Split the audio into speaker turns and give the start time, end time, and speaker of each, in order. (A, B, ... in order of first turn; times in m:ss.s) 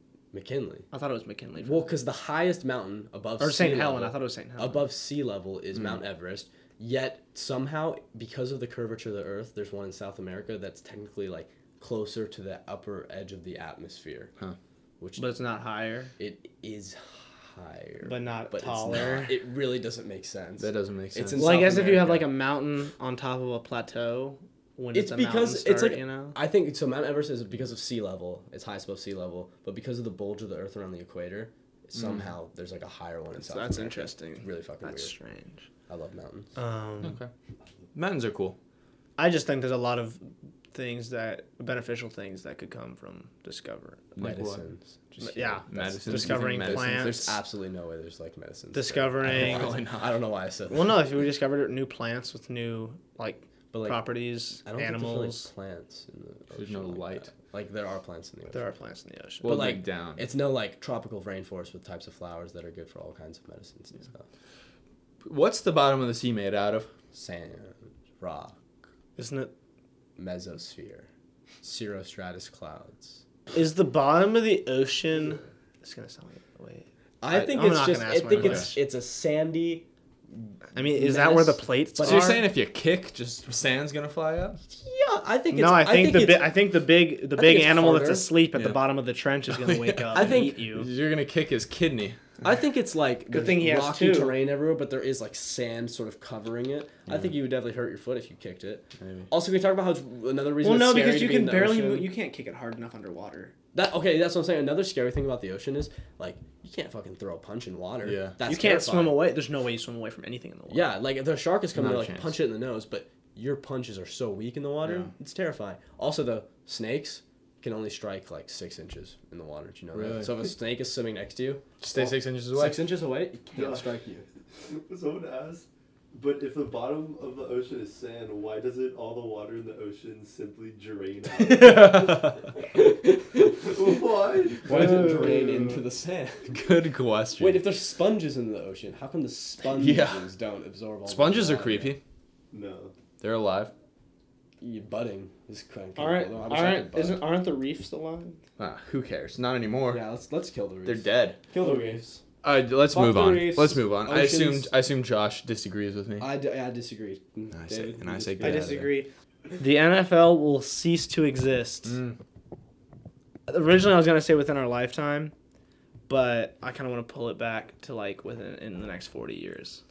0:00.3-0:00.9 A
0:00.9-0:01.9 B
0:01.6-0:14.3 A
0:03.4-0:04.8 B
0:15.0-0:15.3 A
0:15.2-0:16.1 B
0:16.2-0:22.3 A
0:18.0-0:19.4 B
0:20.6-0:21.5 C
0:21.4-0:26.4 B
0:24.9-0:35.1 A
0:32.0-0:32.3 C
0:33.4-0:35.7 B
0:35.9-0:36.5 A
0:36.6-0:37.2 B
0:37.0-0:37.3 C
0:37.9-0:38.6 C
0:39.2-0:44.2 B
0:44.2-0:44.7 C
0:44.2-0:51.0 A
0:45.2-0:47.4 B
0:45.7-0:47.1 C
0:48.7-0:49.8 B
0:49.2-0:50.2 C
0:50.7-0:55.5 B
0:53.7-0:58.6 A
0:56.6-0:57.3 C
0:58.5-0:59.5 B
0:59.4-1:00.3 C
0:59.4-1:04.2 A
1:05.2-1:06.9 C
1:07.1-1:08.5 A
1:09.2-1:09.5 B
1:10.2-1:11.1 A
1:11.6-1:13.2 A
1:13.5-1:18.8 B
1:17.2-1:22.4 A
1:18.4-1:18.7 C
1:20.8-1:22.4 B
1:22.0-1:24.6 C
1:24.8-1:26.5 A
1:25.5-1:30.9 B
1:27.4-1:28.4 A
1:28.5-1:28.8 C
1:29.5-1:32.4 C
1:30.1-1:30.5 A
1:32.4-1:42.1 A
1:33.3-1:34.4 B
1:39.0-1:39.3 C
1:40.6-1:43.5 B
1:43.7-1:49.2 A
1:48.0-1:48.4 C
1:48.4-1:50.9 B
1:50.7-2:04.2 A
1:51.8-1:52.4 C
1:54.8-1:55.1 C
1:59.9-2:00.4 C
2:01.8-2:02.8 C
2:03.5-2:03.9 D
2:04.6-2:12.4 D
2:11.3-2:12.6 C
2:13.4-2:15.5 D
2:14.6-2:16.6 A
2:14.7-2:15.8 B
2:16.5-2:17.6 C
2:17.4-2:22.0 A
2:19.6-2:20.3 C
2:21.0-2:22.0 C
2:22.5-2:22.9 D
2:23.2-2:23.7 C
2:24.6-2:27.2 A
2:26.0-2:28.4 B
2:28.6-2:30.0 C
2:29.9-2:32.2 A
2:30.8-2:31.4 C
2:31.6-2:32.0 B
2:32.4-2:36.3 C
2:33.0-2:34.7 A
2:33.0-2:33.6 B
2:36.2-2:38.9 A
2:37.5-2:38.9 C
2:38.4-2:42.0 B
2:41.9-2:42.2 C
2:43.5-2:45.3 B
2:46.1-2:49.8 B